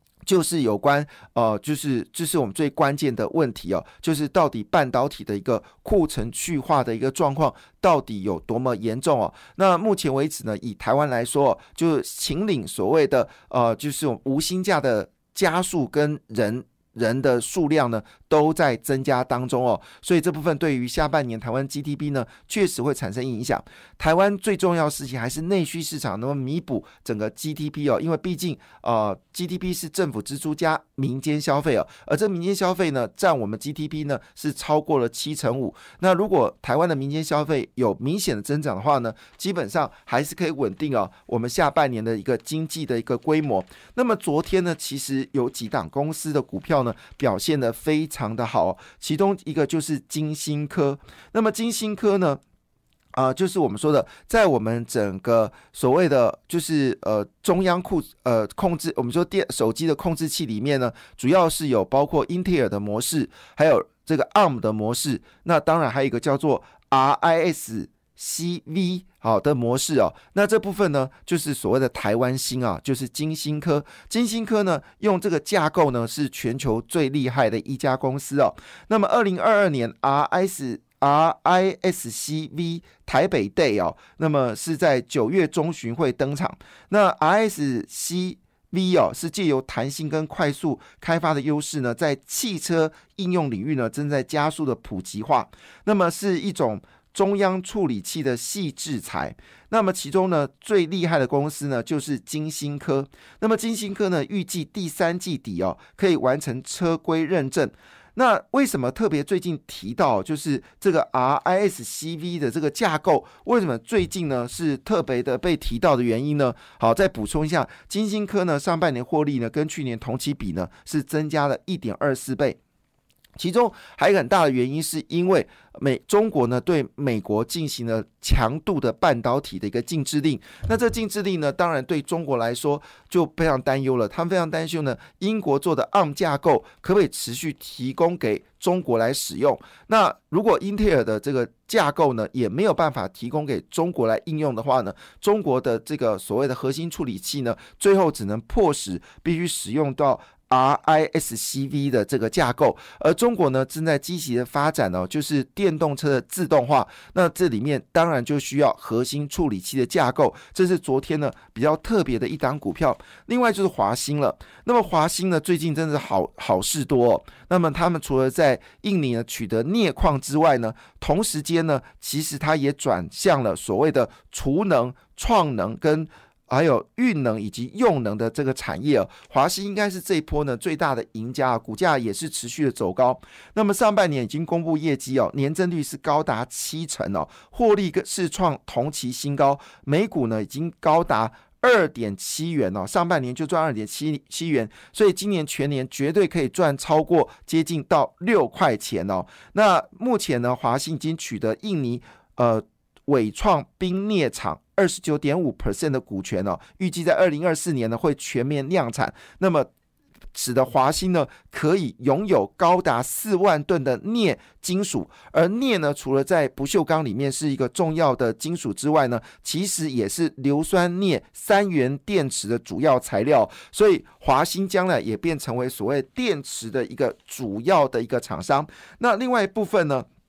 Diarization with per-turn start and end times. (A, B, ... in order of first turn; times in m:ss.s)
0:00.2-0:52.4 A
0:53.1-2:02.6 A
2:03.4-3:29.7 A
3:30.3-3:50.0 A